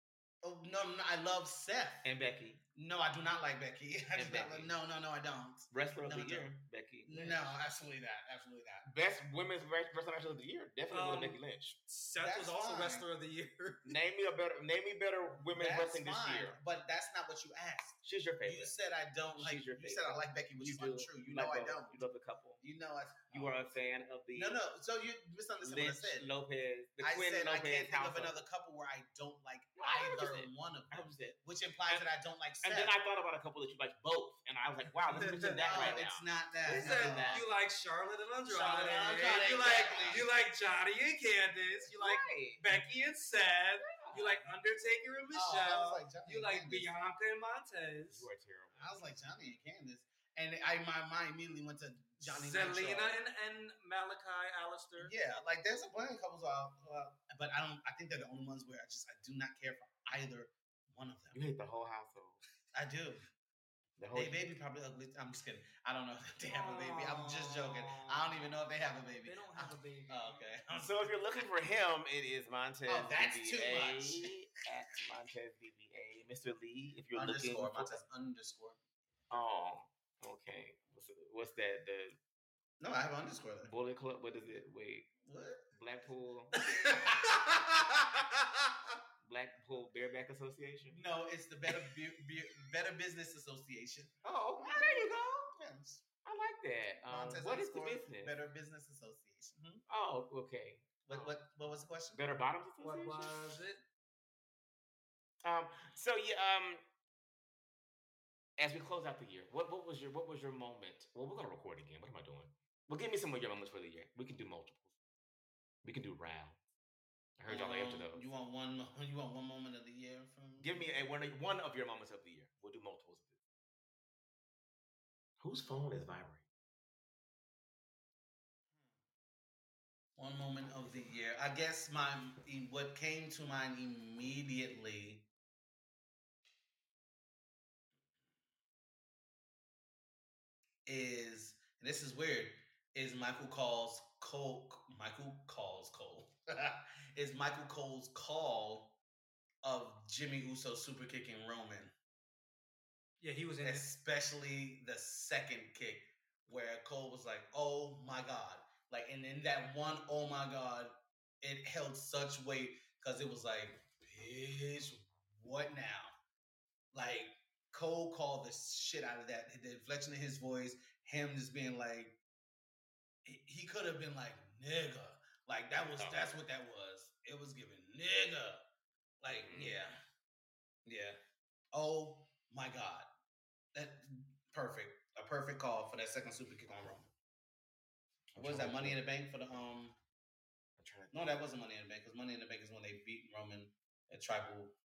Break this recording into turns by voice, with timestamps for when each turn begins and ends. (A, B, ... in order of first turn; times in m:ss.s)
0:00.4-0:02.1 A
0:02.0-0:02.6 B
0:02.7-0:06.5 A
0:04.1-0:04.7 B
0:05.7-0:07.5 B
0:07.0-0:08.9 A
0:08.8-0:11.8 B
0:10.9-0:14.0 C
0:12.1-0:13.1 A
0:13.8-0:16.6 B
0:15.4-0:22.0 A
0:18.0-0:18.8 B
0:19.3-0:22.6 B
0:22.6-0:23.8 A
0:23.3-0:24.6 B
0:24.3-0:26.3 A
0:25.6-0:28.4 B
0:27.0-0:32.9 A
0:29.8-0:31.4 B
0:32.6-0:37.5 B
0:35.1-0:36.0 C
0:35.1-0:37.5 A
0:36.6-0:48.3 C
0:38.5-0:40.3 A
0:39.8-0:40.2 B
0:41.9-0:42.7 B
0:43.8-0:44.5 B
0:45.3-0:46.9 A
0:48.1-0:49.1 B
0:48.7-0:53.2 A
0:52.2-0:55.1 C
0:55.0-1:01.4 A
1:01.3-1:02.4 B
1:02.7-1:03.2 A
1:04.0-1:04.5 B
1:04.1-1:11.4 A
1:06.5-1:08.5 C
1:09.2-1:10.4 C
1:10.8-1:18.0 B
1:12.9-1:14.3 A
1:17.1-1:18.8 A
1:19.3-1:22.2 B
1:22.8-1:23.7 A
1:23.6-1:25.1 B
1:25.2-1:25.6 A
1:25.7-1:26.6 B
1:26.7-1:28.4 C
1:26.8-1:27.4 A
1:29.2-1:31.0 B
1:30.9-1:36.0 A
1:34.2-1:35.5 B
1:36.2-1:38.3 B
1:37.1-1:39.8 A
1:39.9-1:41.4 B
1:41.1-1:42.2 A
1:42.1-1:43.5 B
1:42.8-1:43.8 C
1:45.4-1:46.8 B
1:48.6-1:54.9 B
1:55.8-1:56.6 B
1:57.4-1:58.3 B
1:57.5-2:00.9 A
2:00.6-2:03.4 B
2:05.4-2:06.4 B
2:08.7-2:09.0 A
2:10.2-2:15.2 A
2:20.8-2:29.0 A
2:29.6-2:31.9 A
2:33.2-2:33.9 C
2:33.6-2:46.1 A
2:46.9-2:52.2 A
2:53.2-2:58.6 A
2:56.0-2:56.3 B
2:59.2-3:00.0 A
2:59.3-2:59.8 B
3:00.8-3:01.2 A
3:01.7-3:03.1 A
3:03.7-3:07.1 A
3:08.3-3:09.0 B
3:08.3-3:10.0 A
3:10.8-3:11.4 B
3:11.1-3:14.8 A